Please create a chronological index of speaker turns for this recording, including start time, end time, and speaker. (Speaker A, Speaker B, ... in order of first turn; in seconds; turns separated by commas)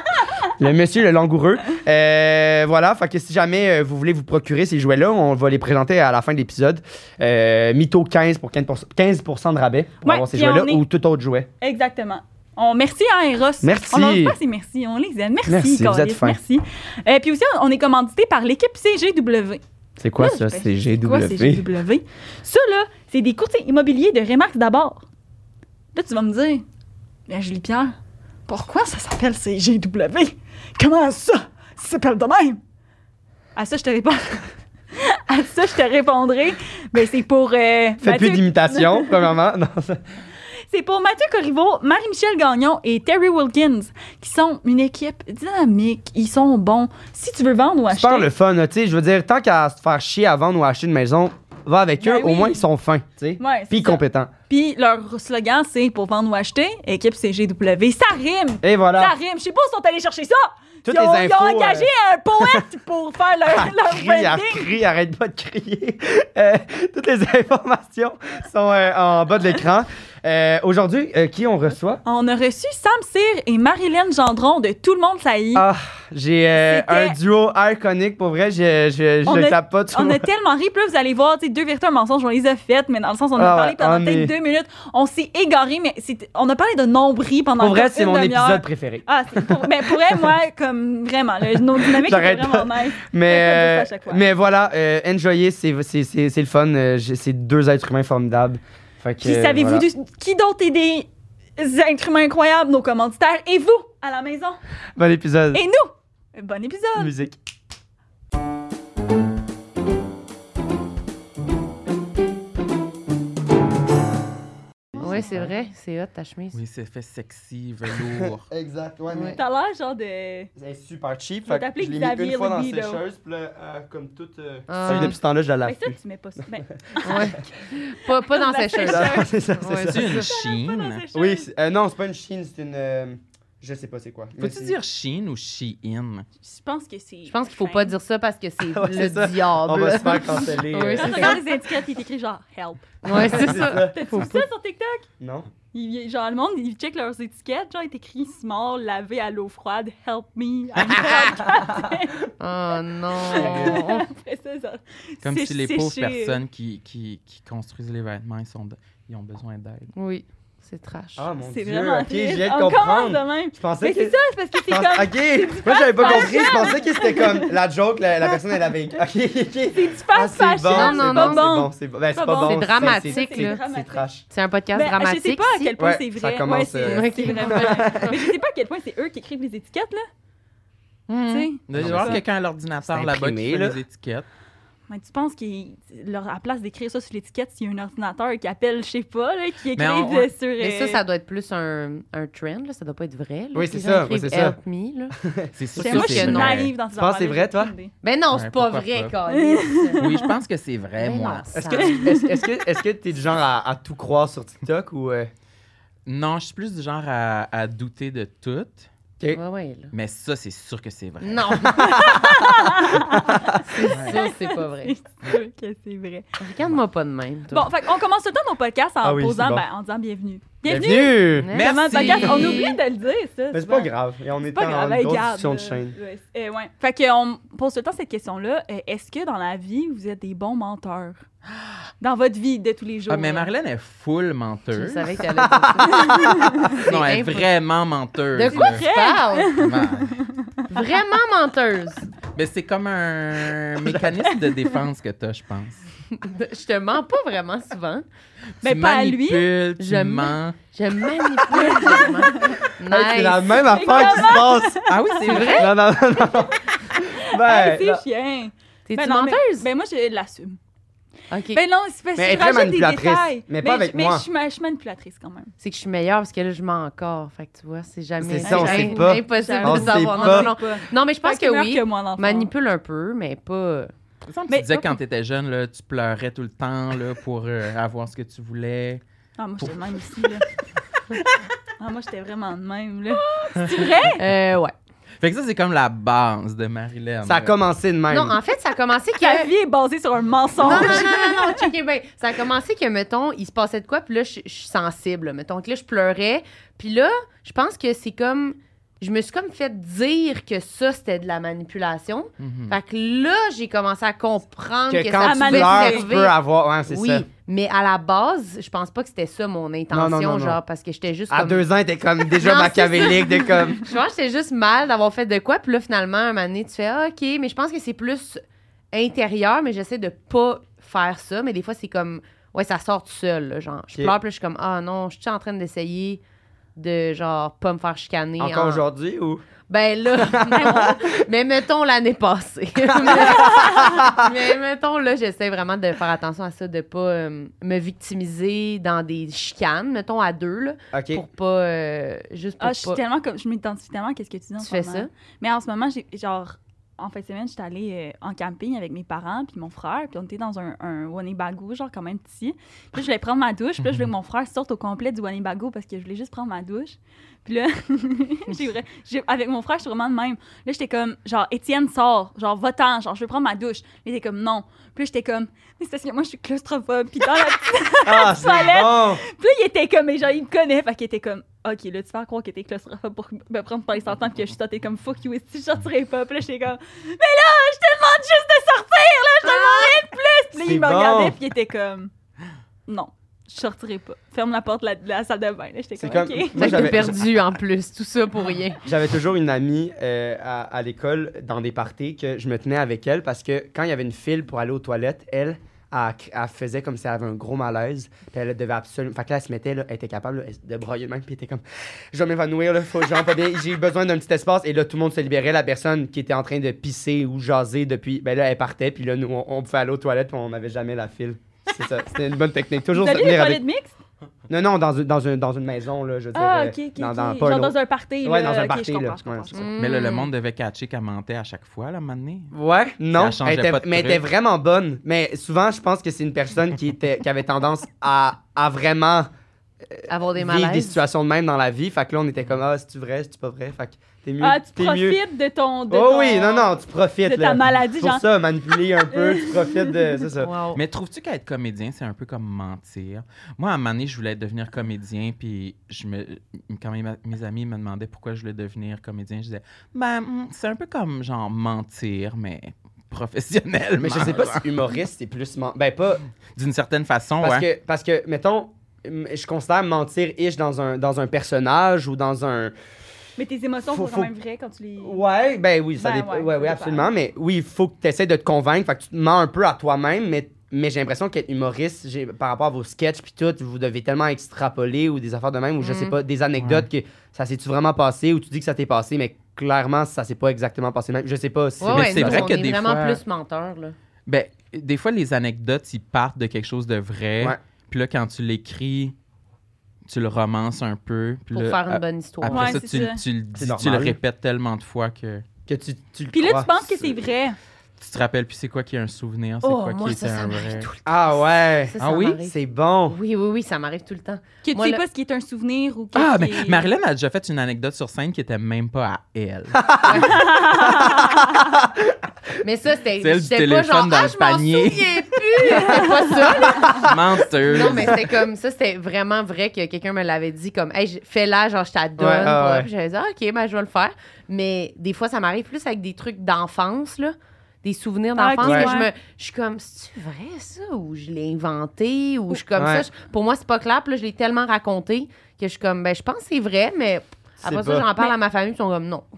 Speaker A: 0.2-0.5, Speaker B: 0.5-11.5, Speaker A: 10.0-10.8, Speaker A: 11.6-19.6, Speaker B: 13.6-14.4, Speaker B: 15.5-16.4, Speaker B: 20.0-21.6, Speaker A: 20.2-25.1, Speaker A: 25.9-26.6, Speaker A: 27.3-27.9, Speaker A: 28.5-32.6, Speaker A: 33.6-39.3, Speaker B: 38.0-40.0, Speaker A: 40.7-48.3, Speaker B: 47.9-54.3, Speaker A: 52.0-52.6, Speaker A: 53.4-64.7, Speaker B: 58.6-59.1, Speaker B: 60.8-61.9, Speaker B: 62.4-62.7, Speaker B: 63.5-72.0, Speaker A: 72.0-75.7, Speaker B: 75.5-80.3, Speaker A: 76.5-77.2, Speaker A: 79.3-94.2, Speaker B: 83.3-84.3, Speaker B: 87.6-90.2, Speaker B: 91.5-99.9, Speaker A: 99.2-104.6, Speaker B: 105.0-105.6, Speaker A: 105.5-107.3, Speaker B: 107.0-107.3, Speaker A: 115.0-115.6, Speaker B: 115.0-115.5, Speaker C: 115.0-116.6, Speaker D: 116.5-118.5, Speaker B: 118.0-119.4, Speaker C: 119.1-119.4, Speaker A: 119.3-120.5, Speaker B: 120.6-126.0, Speaker A: 121.5-123.0, Speaker C: 124.7-125.2, Speaker D: 124.8-125.2, Speaker A: 125.6-129.3, Speaker C: 127.0-130.3, Speaker B: 128.8-130.3, Speaker D: 129.8-131.0, Speaker A: 130.0-131.5, Speaker B: 131.1-134.8, Speaker D: 134.4-136.3, Speaker A: 136.4-137.9, Speaker C: 137.3-141.4, Speaker B: 138.7-141.4, Speaker A: 141.0-145.1, Speaker C: 143.0-144.4, Speaker B: 143.1-144.0, Speaker B: 145.2-145.5, Speaker A: 145.7-152.3, Speaker C: 150.9-151.4, Speaker B: 151.5-151.9, Speaker C: 152.4-154.1, Speaker A: 153.2-156.4, Speaker B: 153.3-153.8, Speaker D: 155.2-159.9, Speaker C: 159.9-161.3, Speaker B: 161.2-174.3, Speaker A: 161.4-167.5, Speaker C: 166.1-166.3, Speaker A: 168.2-169.0, Speaker A: 169.7-174.1, Speaker C: 170.7-171.5, Speaker C: 172.4-173.6, Speaker C: 174.3-175.7, Speaker A: 174.7-180.1, Speaker B: 175.8-178.2, Speaker C: 176.8-178.1, Speaker D: 181.1-184.3, Speaker A: 181.3-182.2, Speaker B: 181.7-182.3, Speaker B: 182.9-183.8, Speaker A: 184.9-191.0, Speaker D: 189.7-190.3, Speaker C: 190.6-195.2, Speaker B: 193.5-194.6, Speaker B: 195.2-196.2, Speaker D: 195.6-196.7, Speaker A: 195.8-197.9, Speaker C: 195.8-196.7, Speaker B: 197.0-197.7, Speaker C: 198.0-200.2, Speaker D: 198.3-199.1, Speaker A: 199.3-200.3, Speaker D: 200.0-201.6, Speaker C: 201.0-202.1, Speaker B: 201.6-205.3, Speaker A: 201.7-202.4, Speaker D: 206.1-208.9, Speaker C: 209.3-209.9, Speaker D: 209.9-211.8, Speaker C: 211.2-212.2, Speaker B: 211.8-213.6, Speaker A: 211.8-216.3, Speaker C: 213.7-214.9, Speaker D: 213.9-214.2, Speaker C: 216.4-217.7, Speaker A: 217.5-223.9, Speaker B: 219.0-219.7, Speaker B: 220.7-221.6, Speaker C: 221.4-222.8, Speaker D: 221.5-222.7, Speaker B: 223.5-226.0, Speaker A: 224.4-231.2, Speaker A: 232.0-233.5, Speaker D: 233.1-235.1, Speaker C: 234.7-237.5, Speaker B: 235.4-236.7, Speaker A: 235.9-236.7, Speaker D: 236.8-238.8, Speaker C: 238.3-239.6, Speaker A: 238.5-240.7, Speaker D: 239.5-240.2, Speaker C: 240.7-242.1, Speaker D: 242.3-245.8, Speaker B: 243.8-244.2, Speaker C: 246.1-248.1, Speaker D: 248.6-250.6, Speaker A: 248.6-249.5, Speaker C: 249.8-254.3, Speaker A: 251.6-252.6, Speaker B: 252.9-254.8, Speaker A: 253.6-255.5, Speaker D: 254.9-255.7, Speaker C: 255.2-255.8, Speaker B: 255.4-258.0, Speaker A: 256.1-256.4, Speaker A: 256.9-260.6, Speaker C: 258.9-259.6, Speaker C: 261.3-261.6, Speaker A: 261.5-265.5, Speaker B: 262.2-264.3, Speaker C: 265.6-273.9, Speaker B: 268.2-270.5, Speaker A: 268.4-272.5, Speaker D: 274.3-279.0, Speaker A: 274.5-275.0, Speaker A: 279.4-280.5, Speaker D: 279.6-280.3, Speaker A: 281.8-284.2, Speaker C: 283.4-284.7, Speaker D: 285.2-287.5, Speaker B: 287.2-288.4, Speaker C: 288.1-289.5, Speaker A: 289.2-291.7, Speaker C: 290.6-306.4, Speaker D: 290.7-291.0, Speaker D: 302.4-302.8, Speaker B: 304.9-307.2, Speaker A: 305.2-306.1, Speaker C: 306.9-311.6, Speaker B: 309.9-310.6, Speaker B: 311.3-313.9, Speaker C: 312.3-326.2, Speaker C: 326.8-328.8, Speaker B: 328.4-329.4, Speaker C: 329.7-343.0, Speaker B: 330.1-331.1, Speaker B: 332.9-334.5, Speaker B: 340.9-341.2, Speaker A: 342.6-382.1, Speaker C: 344.6-345.1, Speaker B: 368.1-369.2, Speaker C: 379.4-380.0, Speaker B: 380.6-381.4, Speaker A: 382.9-387.0, Speaker B: 386.0-387.2, Speaker C: 386.6-388.8, Speaker B: 388.8-413.6, Speaker A: 412.9-414.0, Speaker B: 414.5-419.6, Speaker A: 416.3-419.7, Speaker C: 419.5-420.3, Speaker D: 419.8-422.5, Speaker B: 422.5-429.3, Speaker D: 423.1-424.2, Speaker B: 429.9-435.2, Speaker C: 430.1-431.0, Speaker A: 434.4-440.2, Speaker B: 435.9-440.5, Speaker C: 440.4-440.8, Speaker D: 440.7-454.6, Speaker B: 454.0-456.2, Speaker D: 456.6-457.7, Speaker B: 457.4-462.7, Speaker A: 463.4-465.2, Speaker B: 463.9-464.3, Speaker B: 465.0-482.5, Speaker A: 466.0-467.1, Speaker C: 475.8-476.2, Speaker D: 476.6-476.9, Speaker C: 481.8-484.0, Speaker D: 481.8-483.2, Speaker D: 484.3-489.1, Speaker D: 490.1-495.5, Speaker C: 491.5-492.9, Speaker A: 492.5-493.2, Speaker B: 493.6-494.2, Speaker B: 495.7-497.1, Speaker A: 496.3-497.6, Speaker D: 498.0-500.9, Speaker C: 499.6-502.6, Speaker B: 501.1-503.2, Speaker D: 502.0-502.4, Speaker C: 503.1-505.0, Speaker A: 504.6-506.9, Speaker D: 506.1-510.4, Speaker B: 509.8-512.2, Speaker C: 510.1-511.1, Speaker A: 510.4-511.6, Speaker C: 512.6-539.2, Speaker D: 513.2-518.4, Speaker B: 516.7-517.2, Speaker B: 517.7-518.1, Speaker B: 522.2-522.9, Speaker A: 528.4-529.1, Speaker B: 528.6-528.9, Speaker B: 532.8-533.1, Speaker B: 537.6-538.1